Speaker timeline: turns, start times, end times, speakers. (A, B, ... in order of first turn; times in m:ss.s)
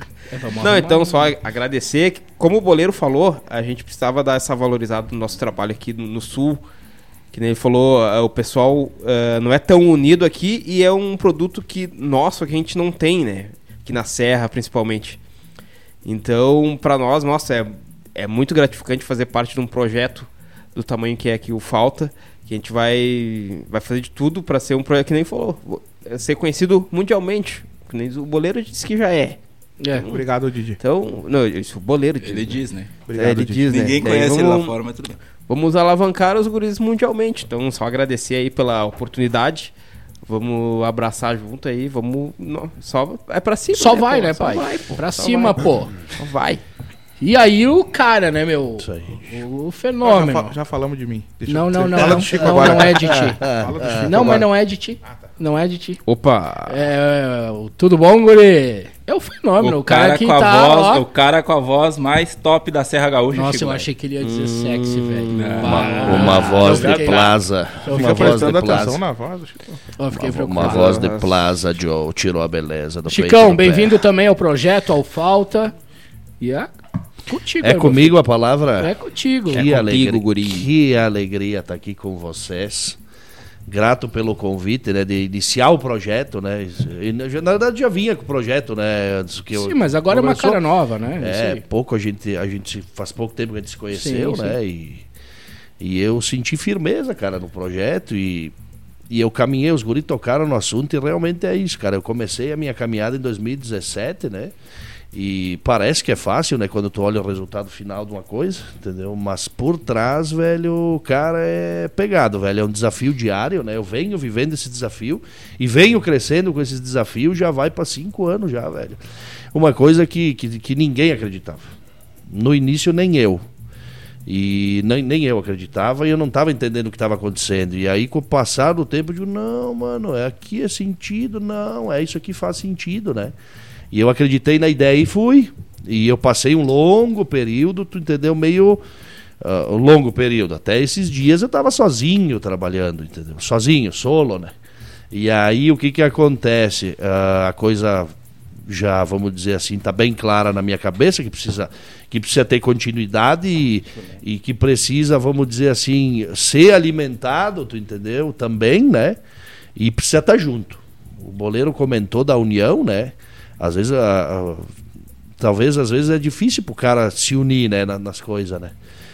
0:00.3-0:01.3 A
0:00.6-0:06.6 B
0:07.3-0:15.2 B
0:16.0-0:29.4 B
0:29.8-0:30.1 A
0:29.9-0:30.3 B
0:30.1-0:30.8 C
0:30.8-0:32.6 B
0:32.2-0:32.9 D
0:33.1-0:34.0 C
0:33.1-0:34.8 B
0:33.7-0:35.2 D
0:35.5-0:39.7 B
0:40.2-0:46.6 B
0:43.7-0:45.9 A
0:47.2-0:50.5 A
0:48.8-0:49.2 E
0:50.0-0:54.5 C
0:51.5-0:56.0 A
0:52.0-0:54.4 E
0:56.1-0:56.8 B
0:56.7-1:01.0 A
0:59.6-1:03.9 D
1:03.3-1:08.6 A
1:04.2-1:06.5 B
1:05.3-1:06.5 D
1:05.6-1:09.0 E
1:06.6-1:07.4 C
1:07.9-1:09.8 C
1:10.0-1:11.0 A
1:10.1-1:14.0 E
1:10.6-1:11.4 B
1:13.1-1:15.7 A
1:16.4-1:16.7 A
1:17.3-1:18.2 A
1:17.6-1:18.9 E
1:18.8-1:19.6 A
1:19.5-1:23.0 E
1:19.5-1:20.7 B
1:23.7-1:30.6 E
1:29.5-1:31.6 A
1:31.2-1:35.1 E
1:33.9-1:34.6 A
1:35.8-1:38.6 E
1:39.1-1:44.6 E
1:45.1-1:59.0 E
1:59.5-2:01.7 E
2:02.3-2:03.4 E
2:04.3-2:13.3 E
2:13.9-2:18.8 E
2:19.4-2:24.6 E
2:25.1-2:39.2 E
2:39.8-2:44.7 E
2:45.4-2:48.7 E